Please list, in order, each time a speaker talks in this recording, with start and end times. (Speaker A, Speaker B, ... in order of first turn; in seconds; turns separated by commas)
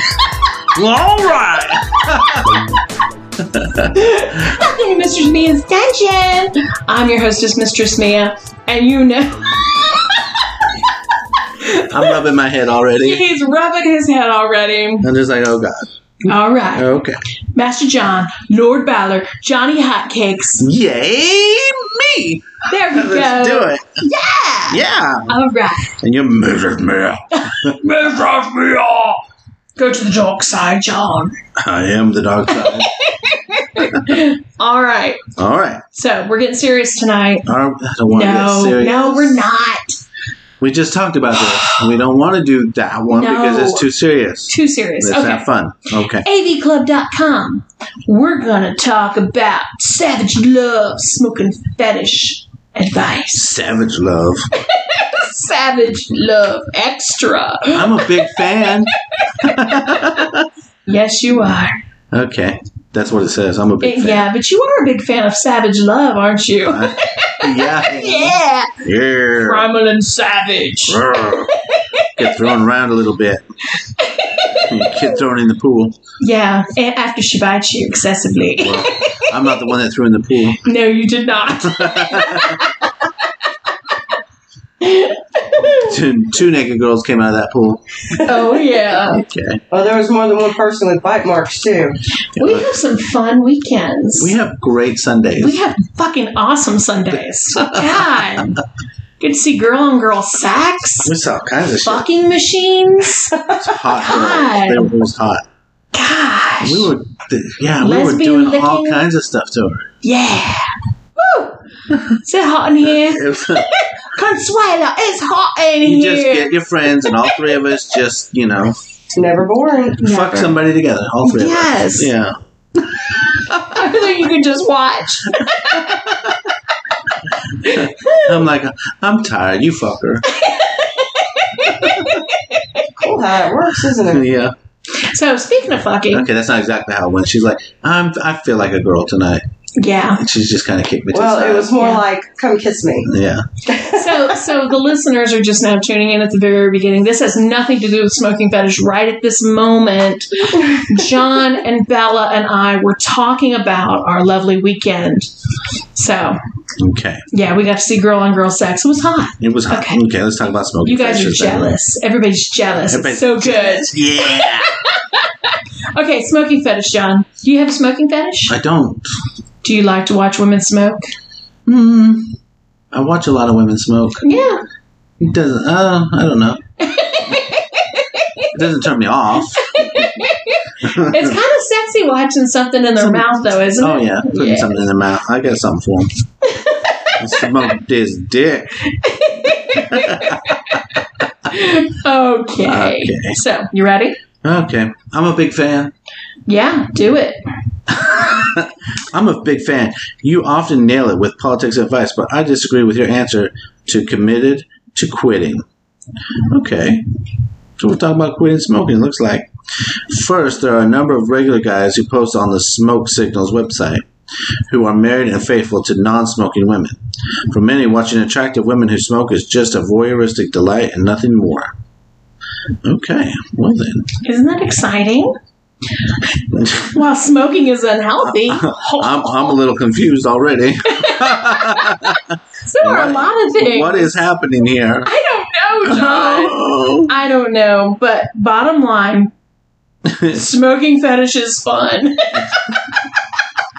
Speaker A: 0.7-2.6, Speaker A: 3.4-3.9, Speaker B: 3.9-10.7, Speaker B: 11.4-12.2, Speaker A: 11.9-13.3, Speaker B: 13.0-15.1, Speaker A: 15.0-15.9, Speaker B: 16.2-16.9, Speaker A: 16.7-17.2, Speaker B: 17.5-20.6, Speaker A: 20.6-23.9, Speaker B: 22.6-25.9, Speaker A: 24.7-25.3, Speaker A: 26.0-27.8, Speaker B: 27.3-29.2, Speaker B: 29.8-31.3, Speaker A: 31.6-32.9, Speaker B: 32.5-35.2, Speaker A: 33.8-34.2, Speaker A: 35.4-35.8, Speaker B: 35.9-37.5, Speaker A: 37.5-39.5, Speaker B: 38.1-39.9, Speaker A: 40.6-46.2, Speaker B: 43.1-43.9, Speaker B: 44.5-45.5, Speaker B: 46.2-53.5, Speaker A: 53.3-54.5, Speaker B: 54.6-58.4, Speaker A: 57.7-60.5, Speaker B: 59.1-59.7, Speaker B: 60.9-61.7, Speaker A: 62.1-64.2, Speaker B: 63.8-68.8, Speaker A: 66.7-69.7, Speaker B: 69.4-71.0, Speaker A: 70.9-71.5, Speaker B: 71.6-72.2, Speaker A: 72.1-73.4, Speaker B: 73.8-75.1, Speaker A: 74.5-76.0, Speaker B: 76.2-79.6, Speaker A: 78.6-80.7, Speaker B: 80.6-83.9, Speaker A: 81.6-82.6, Speaker B: 84.8-85.9, Speaker A: 85.8-88.3, Speaker B: 88.2-89.2, Speaker A: 89.0-89.6, Speaker C: 89.7-92.0, Speaker A: 92.3-92.7, Speaker B: 92.4-94.3, Speaker A: 94.2-95.6, Speaker B: 95.4-98.6, Speaker A: 97.6-98.5, Speaker B: 99.2-101.1, Speaker A: 101.0-102.1, Speaker B: 101.8-104.9, Speaker A: 103.5-105.4, Speaker B: 105.9-106.9, Speaker A: 106.6-109.9, Speaker B: 107.8-109.1, Speaker B: 110.0-117.5, Speaker A: 112.8-113.7, Speaker A: 115.8-118.8, Speaker C: 119.1-120.0, Speaker B: 120.0-120.5, Speaker A: 120.0-124.1, Speaker B: 121.2-122.1, Speaker B: 123.7-126.1, Speaker A: 125.7-126.5, Speaker A: 127.3-130.3, Speaker B: 127.6-128.4, Speaker B: 130.3-132.9, Speaker A: 131.8-132.2, Speaker C: 132.9-134.2, Speaker A: 134.0-134.5, Speaker B: 135.0-136.2, Speaker A: 136.1-139.4, Speaker B: 139.8-140.2, Speaker A: 140.1-141.9, Speaker C: 141.1-143.1, Speaker B: 141.8-142.0, Speaker A: 143.0-143.5, Speaker C: 143.7-144.5, Speaker B: 143.8-155.3, Speaker B: 155.9-156.4, Speaker A: 156.8-157.2, Speaker B: 157.3-160.0, Speaker A: 159.4-161.8, Speaker B: 160.8-168.6, Speaker A: 162.9-164.8, Speaker A: 168.5-169.1, Speaker B: 169.6-171.0, Speaker A: 171.7-172.4, Speaker A: 172.9-174.2, Speaker B: 174.2-174.6, Speaker A: 175.2-176.6, Speaker B: 176.8-178.5, Speaker A: 178.5-180.2, Speaker B: 179.6-184.8, Speaker A: 180.8-181.4, Speaker A: 183.0-186.1, Speaker B: 186.4-187.5, Speaker A: 187.2-188.8, Speaker B: 188.8-194.2, Speaker A: 189.8-191.0, Speaker A: 192.6-193.4, Speaker A: 194.4-195.9, Speaker B: 196.5-197.4, Speaker A: 197.9-205.6, Speaker A: 206.5-207.0, Speaker A: 207.8-214.1, Speaker A: 214.7-217.0, Speaker A: 217.5-221.7, Speaker A: 222.8-224.1, Speaker B: 224.2-225.3, Speaker A: 226.5-226.9, Speaker B: 226.9-229.5, Speaker A: 228.3-235.1, Speaker B: 230.9-234.2, Speaker B: 235.0-239.3, Speaker A: 235.8-237.1, Speaker A: 240.1-240.4, Speaker B: 240.3-243.1